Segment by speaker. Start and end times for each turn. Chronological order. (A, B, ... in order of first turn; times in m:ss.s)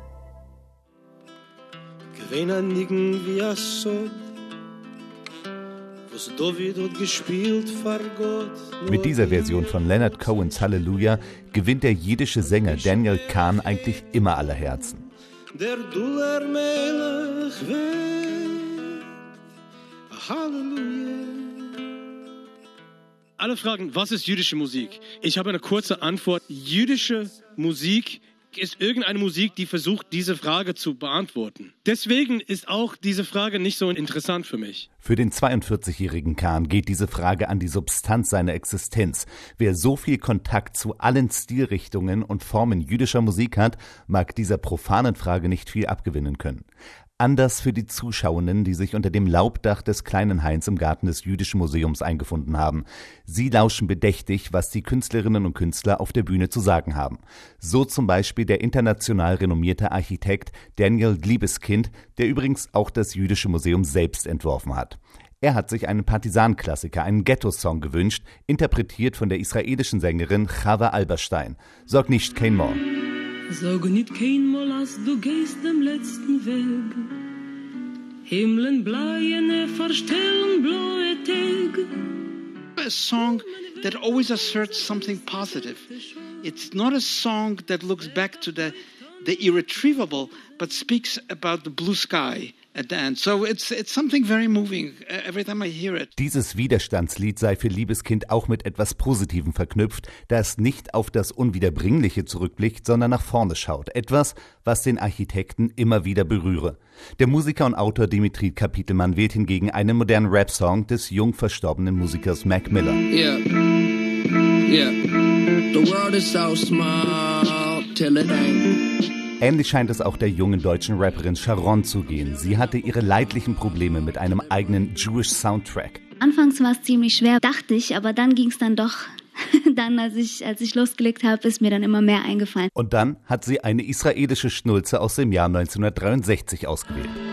0:02.2-0:04.1 A
0:06.1-0:09.2 A
0:08.8-0:15.0 B
0:15.6-0:18.9 A
0:20.1-0:21.7 A
0:23.4-0:34.9 A
0:35.0-0:46.6 B
0:47.2-1:12.8 B
1:13.6-1:16.7 A
1:15.1-1:16.9 C
1:18.3-1:19.7 A
1:18.9-1:21.8 C
1:22.8-1:25.9 D
1:26.4-1:36.1 D
1:36.2-1:53.0 B
1:53.1-1:53.8 E
1:54.6-1:58.9 E
1:59.4-2:06.0 B
2:06.2-2:12.7 F
2:12.8-2:17.2 B